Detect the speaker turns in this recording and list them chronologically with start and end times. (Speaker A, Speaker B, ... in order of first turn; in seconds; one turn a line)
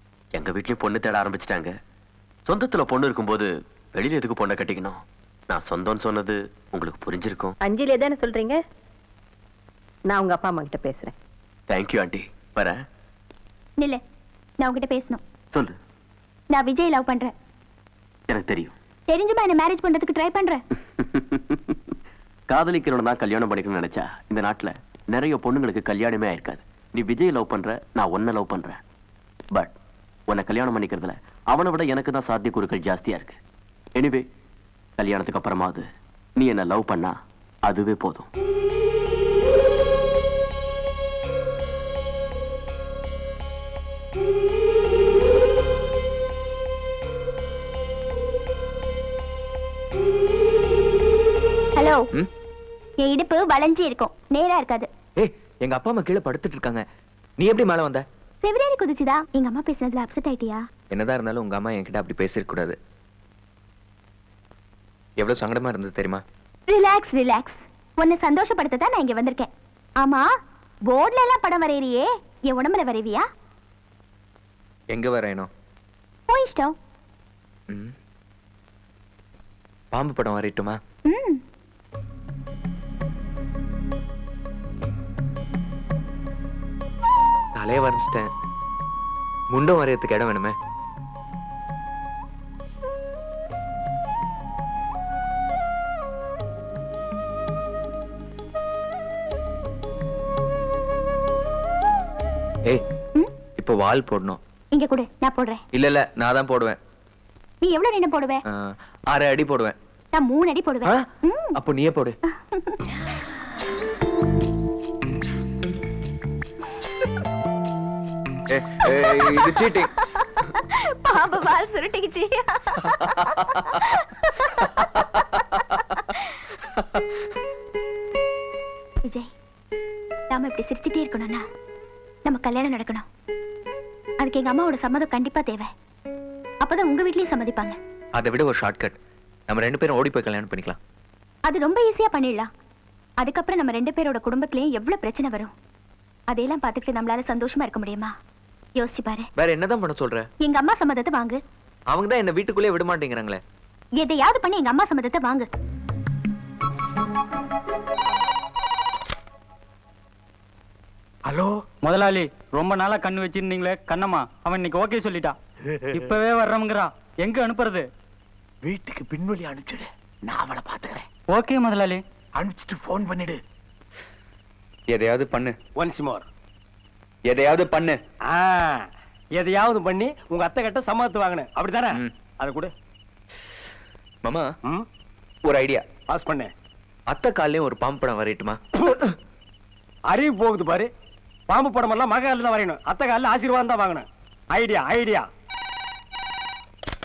Speaker A: 0.3-1.7
Speaker A: 2.5-7.5
Speaker B: 7.6-8.6
Speaker B: 10.1-11.1
Speaker A: 11.7-12.8
Speaker C: 14.6-15.2
Speaker C: 16.5-17.3
Speaker A: 18.3-18.7
Speaker C: 19.1-20.6
Speaker A: 21.0-21.8
Speaker A: 22.5-28.8
Speaker A: 30.3-33.4
Speaker A: 34.0-34.2
Speaker A: 35.0-35.9
Speaker A: 36.4-38.3
Speaker C: 51.8-52.1
Speaker C: 53.0-54.9
Speaker D: 55.2-56.8
Speaker D: 57.4-58.0
Speaker C: 58.4-60.6
Speaker D: 60.9-62.8
Speaker D: 65.2-66.2
Speaker C: 66.7-69.5
Speaker C: 70.0-70.3
Speaker C: 70.9-73.2
Speaker D: 74.9-75.5
Speaker C: 76.3-76.8
Speaker D: 79.9-80.8
Speaker C: 81.1-81.4
Speaker D: 87.5-88.3
Speaker D: 89.5-90.5
Speaker D: 103.6-104.4
Speaker C: 104.7-105.6
Speaker D: 105.7-106.8
Speaker C: 107.6-108.4
Speaker D: 108.5-109.8
Speaker C: 110.1-111.6
Speaker D: 111.6-112.2
Speaker C: 112.3-112.8
Speaker D: 118.5-119.9
Speaker C: 120.0-126.2
Speaker C: 130.3-131.4
Speaker C: 132.3-133.1
Speaker C: 134.2-135.7
Speaker C: 136.6-137.8
Speaker D: 138.2-138.9
Speaker D: 139.5-140.8
Speaker C: 141.5-142.5
Speaker C: 143.2-145.5
Speaker C: 146.3-148.1
Speaker C: 148.8-149.3
Speaker D: 149.4-150.3
Speaker C: 150.4-151.4
Speaker D: 151.9-153.4
Speaker C: 154.0-155.5
Speaker E: 161.3-161.5
Speaker F: 161.8-165.4
Speaker F: 165.9-167.9
Speaker E: 168.6-171.1
Speaker F: 171.3-172.0
Speaker E: 172.4-173.4
Speaker D: 174.9-175.6
Speaker G: 175.8-176.3
Speaker D: 177.3-178.0
Speaker G: 178.3-178.8
Speaker G: 179.4-182.7
Speaker D: 185.5-185.8
Speaker G: 186.1-186.5
Speaker D: 187.1-188.6
Speaker G: 190.1-190.9
Speaker G: 191.5-195.2